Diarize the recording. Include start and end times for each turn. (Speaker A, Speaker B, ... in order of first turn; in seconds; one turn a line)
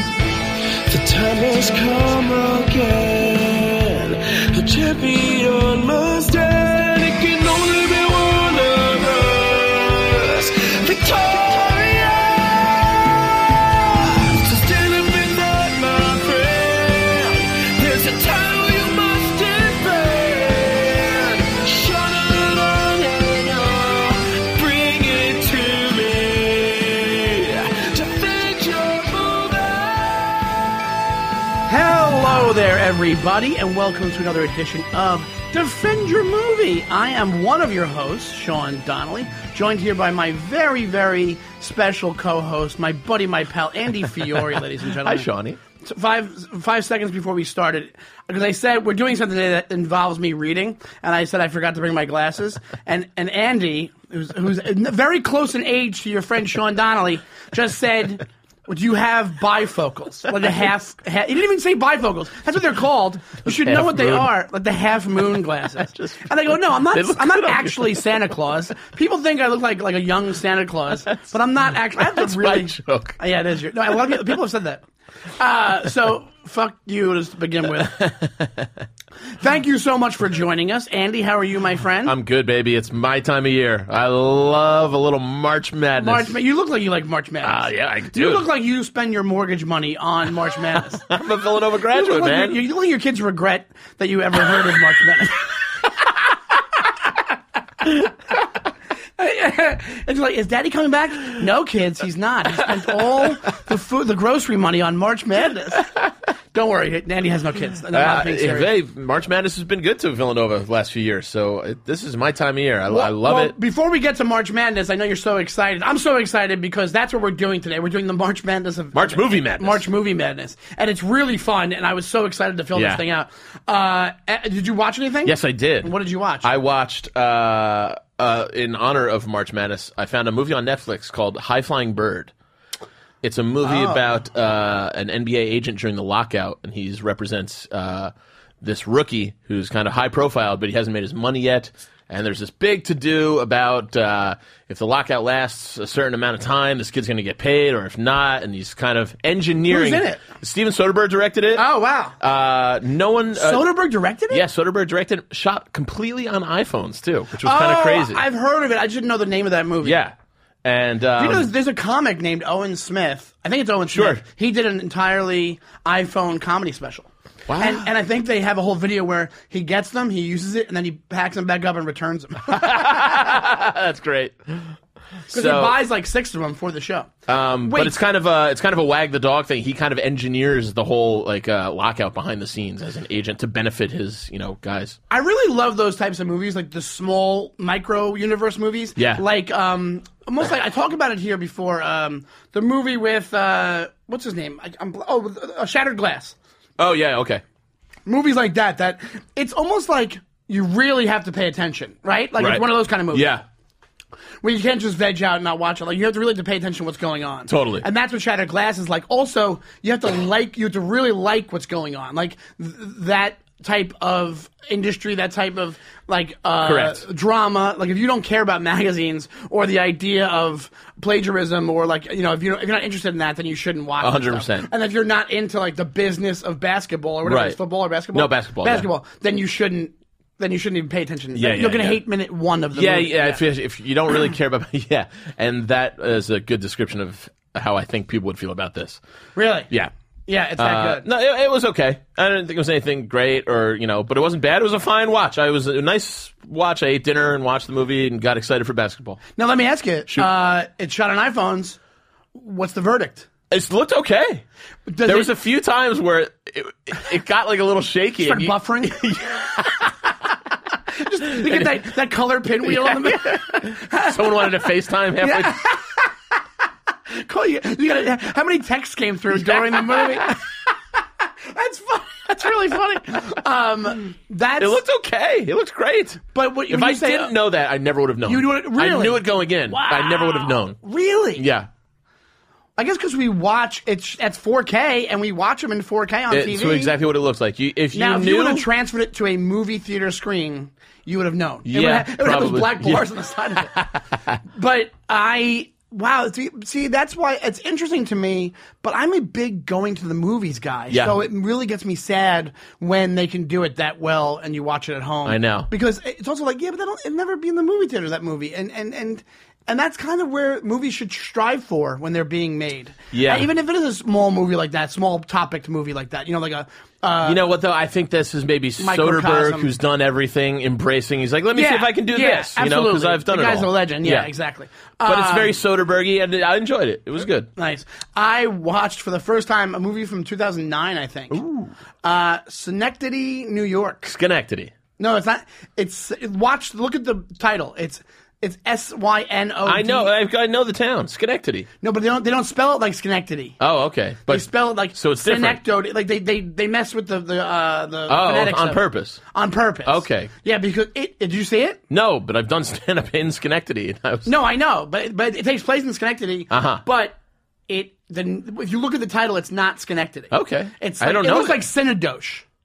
Speaker A: 0.9-30.6
Speaker B: 31.7-45.3
Speaker C: 45.0-45.6
Speaker B: 45.8-74.8
Speaker C: 63.5-64.3
Speaker C: 65.8-68.2
Speaker C: 72.0-73.2
Speaker B: 75.4-78.0
Speaker C: 77.8-78.8
Speaker B: 79.4-82.1
Speaker C: 82.0-86.3
Speaker B: 86.0-91.1
Speaker C: 87.4-88.5
Speaker C: 90.9-92.6
Speaker B: 91.9-95.5
Speaker B: 99.2-105.9
Speaker B: 106.5-108.7
Speaker C: 107.9-113.5
Speaker B: 112.9-126.5
Speaker C: 118.9-119.8
Speaker C: 122.7-123.0
Speaker C: 125.2-132.3
Speaker C: 133.2-151.7
Speaker B: 133.6-134.0
Speaker B: 149.7-150.2
Speaker B: 151.6-152.2
Speaker C: 152.2-153.7
Speaker B: 153.4-154.4
Speaker C: 154.3-158.2
Speaker B: 157.4-160.0
Speaker C: 159.8-161.5
Speaker B: 161.2-173.0
Speaker C: 163.9-164.2
Speaker C: 167.5-167.9
Speaker C: 172.5-174.7
Speaker C: 175.3-175.8
Speaker B: 175.3-177.1
Speaker C: 177.3-185.0
Speaker B: 177.7-178.0
Speaker B: 185.1-196.4
Speaker C: 189.0-189.2
Speaker C: 196.8-197.4
Speaker B: 198.1-203.3
Speaker C: 202.4-203.4
Speaker B: 204.4-233.4
Speaker C: 207.5-207.8
Speaker C: 216.6-217.0
Speaker C: 224.0-224.7
Speaker C: 227.2-227.6
Speaker C: 228.1-228.9
Speaker C: 231.3-232.0
Speaker C: 232.7-239.0
Speaker B: 239.4-239.7
Speaker B: 240.3-241.1
Speaker C: 240.6-249.2
Speaker B: 249.4-251.8
Speaker B: 252.3-253.3
Speaker C: 253.5-254.4
Speaker B: 254.9-255.3
Speaker C: 255.0-260.1
Speaker B: 258.2-259.0
Speaker B: 261.0-264.5
Speaker C: 261.4-261.9
Speaker C: 262.6-265.7
Speaker B: 265.2-266.1
Speaker B: 267.1-270.4
Speaker C: 269.3-270.4
Speaker B: 271.3-274.8
Speaker C: 274.6-280.8
Speaker B: 276.3-277.3
Speaker B: 278.3-281.5
Speaker C: 281.4-281.7
Speaker B: 282.8-287.0
Speaker C: 286.3-288.7
Speaker B: 287.9-293.8
Speaker C: 291.7-293.1
Speaker C: 293.7-294.4
Speaker B: 294.5-317.4
Speaker C: 300.9-301.2
Speaker C: 305.2-305.7
Speaker C: 313.1-313.5
Speaker C: 317.2-324.3
Speaker B: 318.8-319.7
Speaker B: 321.6-325.6
Speaker C: 325.0-327.5
Speaker B: 327.6-331.4
Speaker C: 331.3-331.7
Speaker B: 332.0-334.1
Speaker C: 334.1-334.7
Speaker B: 335.0-340.1
Speaker C: 339.6-341.7
Speaker B: 341.8-343.6
Speaker C: 343.6-345.6
Speaker B: 344.3-351.8
Speaker C: 348.1-349.2
Speaker C: 349.9-350.3
Speaker C: 351.9-354.3
Speaker B: 354.2-357.2
Speaker C: 356.5-356.8
Speaker B: 357.7-362.4
Speaker C: 360.3-361.6